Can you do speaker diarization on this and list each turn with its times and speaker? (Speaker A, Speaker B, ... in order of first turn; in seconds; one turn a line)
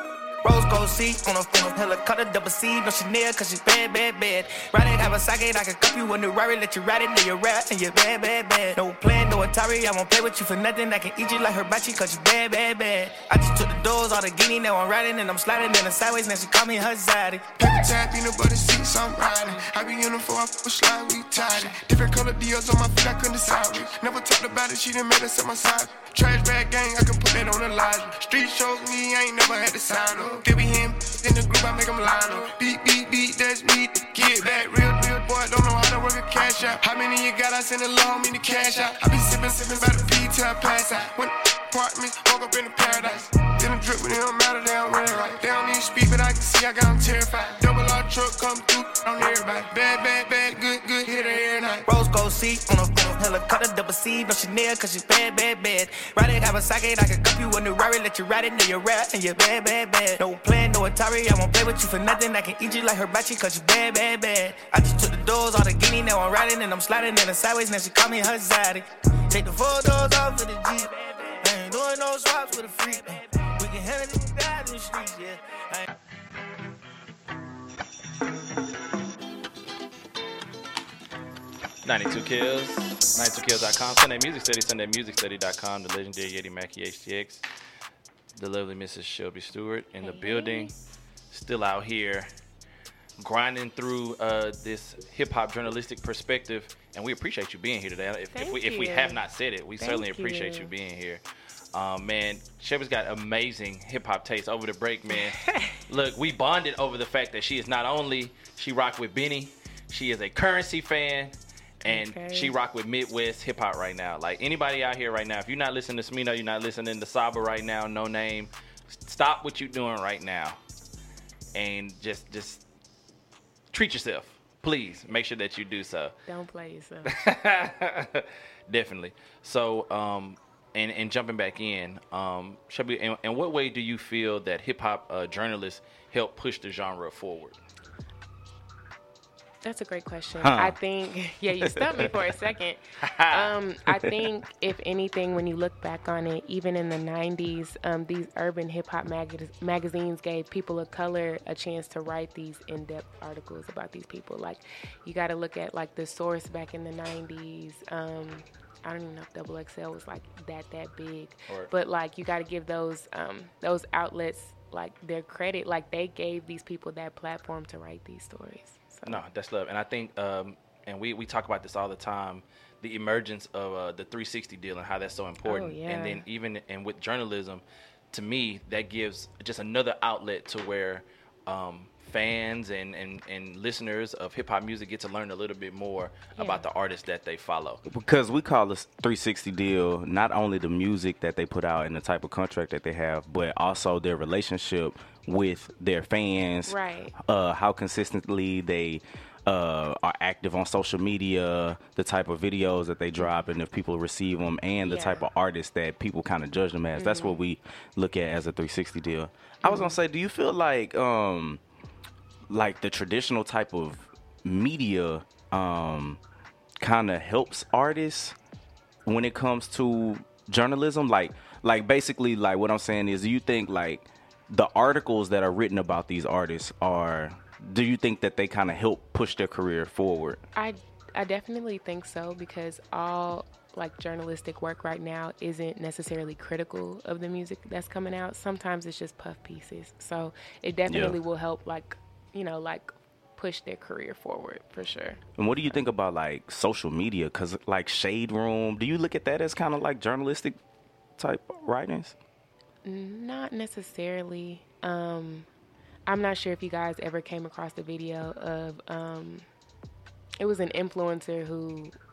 Speaker A: 0.4-17.6
Speaker B: 17.6-51.8
Speaker A: 51.9-75.8
Speaker C: 81.8-87.4
Speaker C: 88.3-90.7
Speaker D: 90.0-90.7
Speaker C: 91.3-92.3
Speaker C: 93.2-101.2
Speaker D: 98.3-99.2
Speaker D: 99.8-100.7
Speaker C: 101.7-105.4
Speaker D: 105.1-105.7
Speaker C: 105.9-120.6
Speaker D: 111.8-112.5
Speaker C: 121.5-122.6
Speaker C: 123.7-126.1
Speaker D: 126.3-127.1
Speaker C: 127.0-137.6
Speaker D: 139.6-169.2
Speaker E: 140.4-140.8
Speaker E: 141.7-142.0
Speaker C: 169.0-187.8
Speaker D: 175.4-176.2
Speaker D: 186.3-186.6
Speaker E: 187.9-211.6
Speaker D: 196.7-197.1
Speaker D: 203.2-203.4
Speaker D: 204.8-205.2
Speaker D: 206.9-207.3
Speaker D: 209.6-209.9
Speaker E: 212.5-216.2
Speaker E: 216.8-218.3
Speaker E: 219.1-230.4
Speaker D: 230.6-245.7
Speaker E: 240.9-241.2
Speaker E: 245.4-250.6
Speaker E: 251.2-252.1
Speaker D: 252.8-255.5
Speaker D: 256.1-259.4
Speaker D: 260.4-261.9